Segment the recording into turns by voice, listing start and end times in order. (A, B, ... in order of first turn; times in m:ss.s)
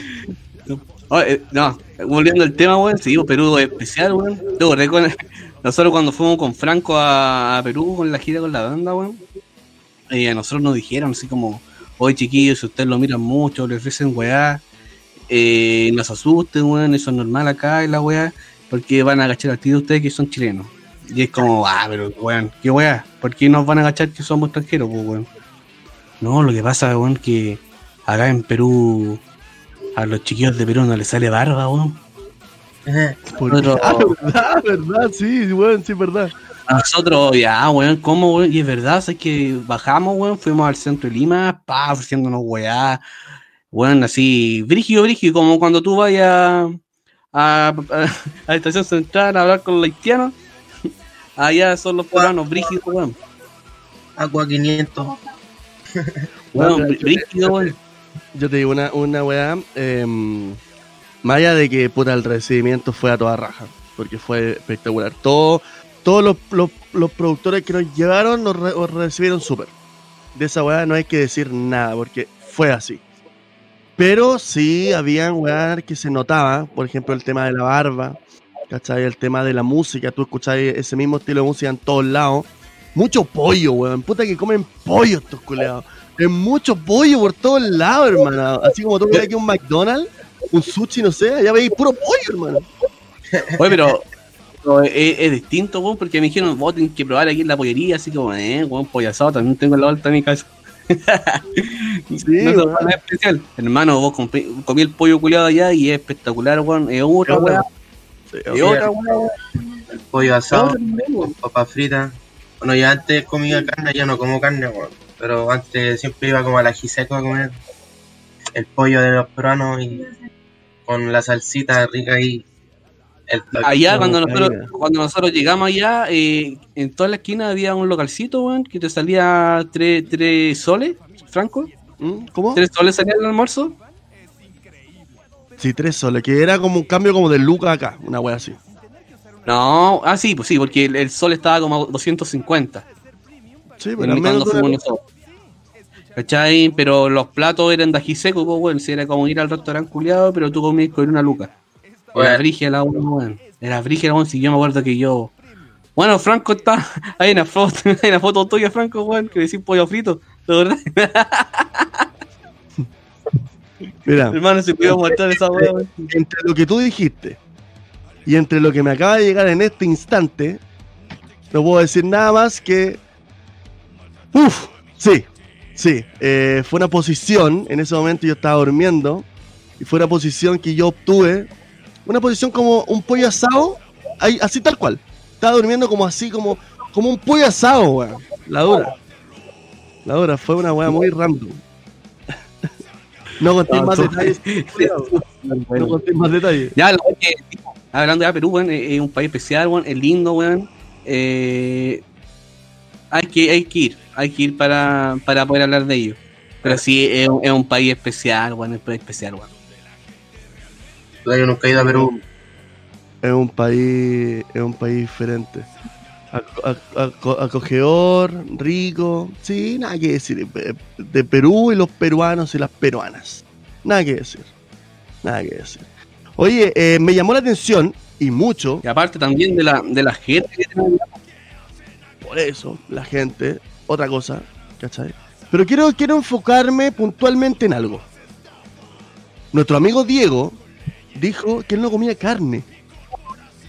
0:00.7-0:09.2 A
0:10.1-0:14.6 A
0:15.3-0:25.3 A
0:26.2-0:29.2 A
0:30.0-0:32.0 A
0:32.9-0:33.2 B
0:33.4-0:36.3 C
0:33.5-0:34.1 A
0:36.7-0:43.0 A
0:43.7-0:46.8 A
0:47.3-0:50.4 A
0:51.4-0:53.2 A
0:52.1-0:52.6 B
0:54.2-0:55.2 B
0:56.5-0:57.7 C
0:56.5-0:57.7 A
0:58.3-1:00.6 C
1:01.2-1:09.7 C
1:10.3-1:13.0 C
1:14.0-1:18.2 C
1:18.7-1:32.6 C
1:33.6-1:34.0 A
1:34.6-1:47.6 A
1:42.2-1:42.9 C
1:47.2-1:47.6 C
1:48.3-1:48.7 C
1:48.5-1:49.3 A
1:48.6-1:49.2 B
1:50.1-1:57.5 B
1:50.5-1:51.3 A
1:58.5-2:00.1 B
2:00.9-2:02.4 B
2:03.3-2:03.9 B
2:03.6-2:11.7 A
2:03.9-2:04.7 C
2:12.0-2:12.6 C
2:12.5-2:13.7 A
2:15.6-2:18.6 C
2:19.4-2:22.8 A
2:23.8-2:24.7 C
2:24.0-2:25.0 A
2:26.2-2:31.5 A
2:32.1-2:35.3 A
2:32.1-2:32.4 B
2:36.0-2:41.8 A
2:44.0-2:47.4 C
2:44.3-2:46.1 A
2:48.2-2:50.6 C
2:51.5-2:53.0 C
2:54.3-2:59.2 C
2:59.8-3:01.5 C
3:02.0-3:08.9 C
3:10.0-3:11.6 C
3:13.4-3:15.1 C
3:13.7-3:16.0 A
3:15.7-3:16.7 C
3:16.7-3:22.0 A
3:23.1-3:29.5 A
3:31.2-3:32.1 B
3:31.7-3:32.2 C
3:33.2-3:35.7 C
3:36.3-3:44.5 C
3:45.2-3:48.8 C
3:48.8-3:51.1 A
3:52.2-3:58.0 C
3:59.5-4:00.6 C
4:01.1-4:02.6 C